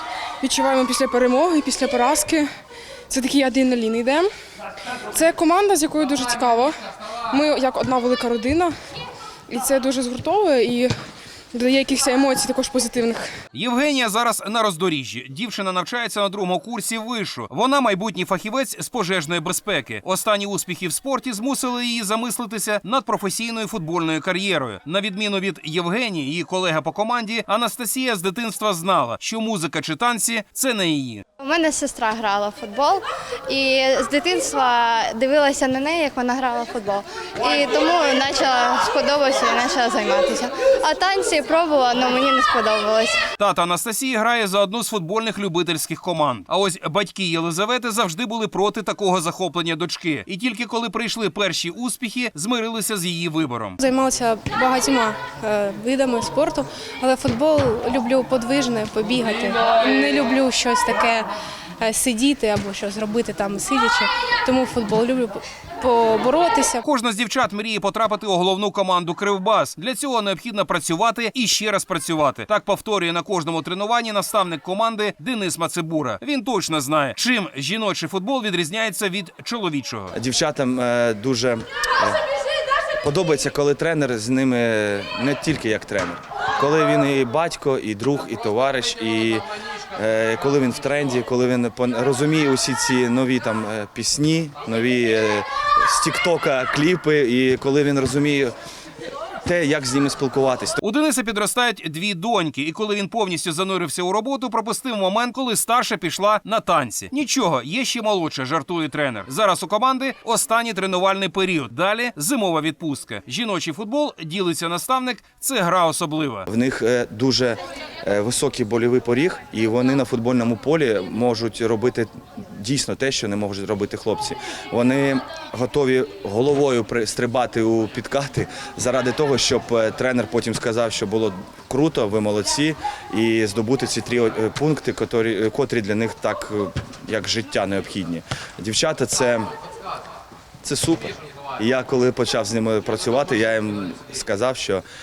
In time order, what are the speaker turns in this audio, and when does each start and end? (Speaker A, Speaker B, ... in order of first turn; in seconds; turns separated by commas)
Speaker A: 0.4-2.5, Speaker A: 3.1-4.3, Speaker A: 5.1-6.7, Speaker A: 7.3-8.7, Speaker A: 9.5-10.9, Speaker A: 11.5-13.3, Speaker B: 13.5-31.2, Speaker C: 31.4-43.2, Speaker B: 43.4-53.8, Speaker D: 53.8-61.3, Speaker D: 61.8-66.8, Speaker B: 66.8-80.1, Speaker E: 80.1-82.2, Speaker E: 83.0-98.5, Speaker E: 99.4-100.8, Speaker B: 100.8-116.5, Speaker E: 116.5-139.5, Speaker E: 140.6-144.8